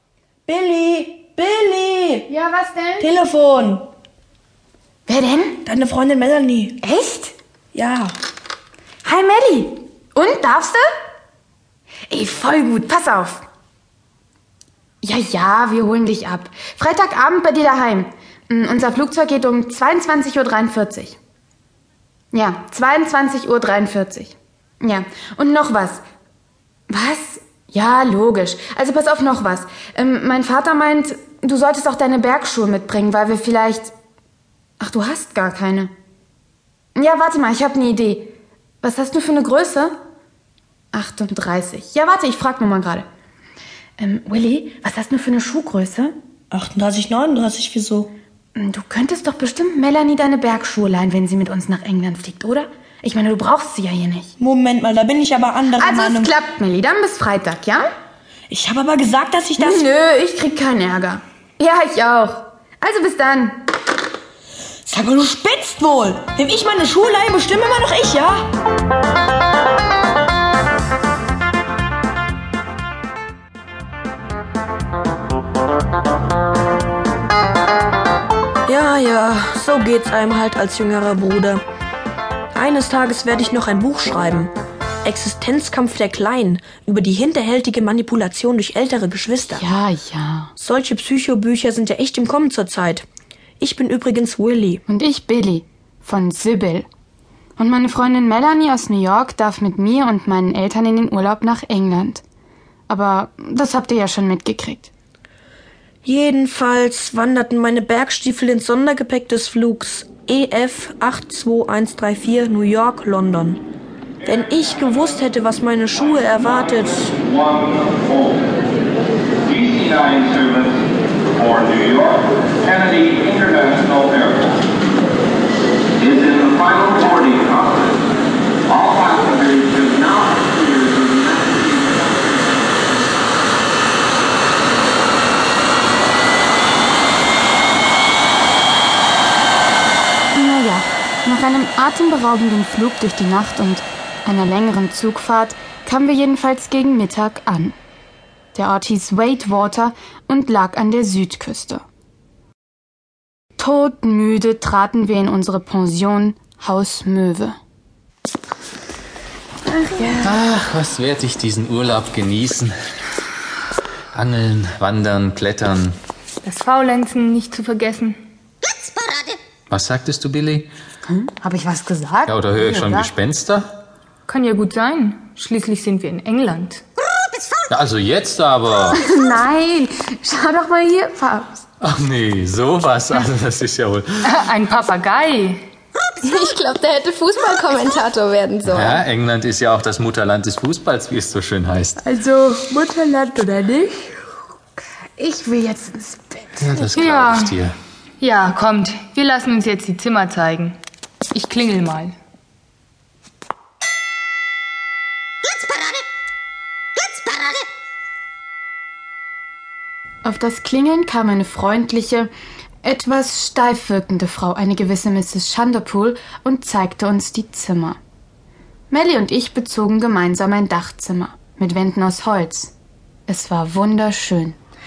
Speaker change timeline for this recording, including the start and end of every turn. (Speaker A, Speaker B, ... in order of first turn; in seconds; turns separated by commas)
Speaker A: 0.5-2.3, Speaker B: 2.3-3.1, Speaker A: 3.0-3.9, Speaker B: 5.1-5.6, Speaker A: 5.6-6.8, Speaker B: 6.8-7.4, Speaker A: 7.7-8.1, Speaker B: 9.0-10.9, Speaker B: 12.1-13.5, Speaker B: 15.0-21.2, Speaker B: 22.3-26.0, Speaker B: 26.9-33.9, Speaker B: 34.8-35.9, Speaker B: 37.0-40.0, Speaker B: 40.9-43.1, Speaker B: 44.0-46.2, Speaker A: 46.5-48.1, Speaker B: 48.5-54.3, Speaker A: 54.4-56.3, Speaker B: 55.8-57.9, Speaker A: 58.5-59.9, Speaker B: 59.6-63.6, Speaker A: 64.9-68.5, Speaker A: 78.7-81.6, Speaker A: 82.5-89.7, Speaker B: 89.6-90.5, Speaker A: 90.6-93.1, Speaker A: 93.6-94.8, Speaker B: 94.9-96.9, Speaker B: 97.6-102.2, Speaker B: 102.9-104.9, Speaker A: 106.0-113.6, Speaker A: 114.2-117.2, Speaker C: 117.5-118.5, Speaker C: 119.5-120.7, Speaker C: 121.4-124.6, Speaker C: 126.0-127.9, Speaker C: 128.7-132.1, Speaker B: 140.3-147.8, Speaker B: 148.5-151.8, Speaker B: 153.6-157.6, Speaker B: 159.7-160.4, Speaker D: 160.2-162.7, Speaker D: 164.1-166.0, Speaker E: 166.4-168.2, Speaker F: 169.1-169.3, Speaker D: 169.7-170.7, Speaker B: 171.1-173.1, Speaker D: 172.3-173.8, Speaker E: 174.3-176.8, Speaker D: 177.7-179.0, Speaker B: 178.9-181.7, Speaker D: 181.8-184.3, Speaker E: 184.2-185.7, Speaker F: 186.2-189.0, Speaker D: 188.7-192.0, Speaker B: 192.0-194.2, Speaker B: 195.0-196.6, Speaker D: 196.6-197.8, Speaker E: 196.9-197.6, Speaker E: 198.2-200.8, Speaker E: 201.3-202.2, Speaker F: 207.2-207.6, Speaker B: 210.2-212.3, Speaker B: 212.8-218.0, Speaker B: 218.9-222.7, Speaker B: 223.3-224.6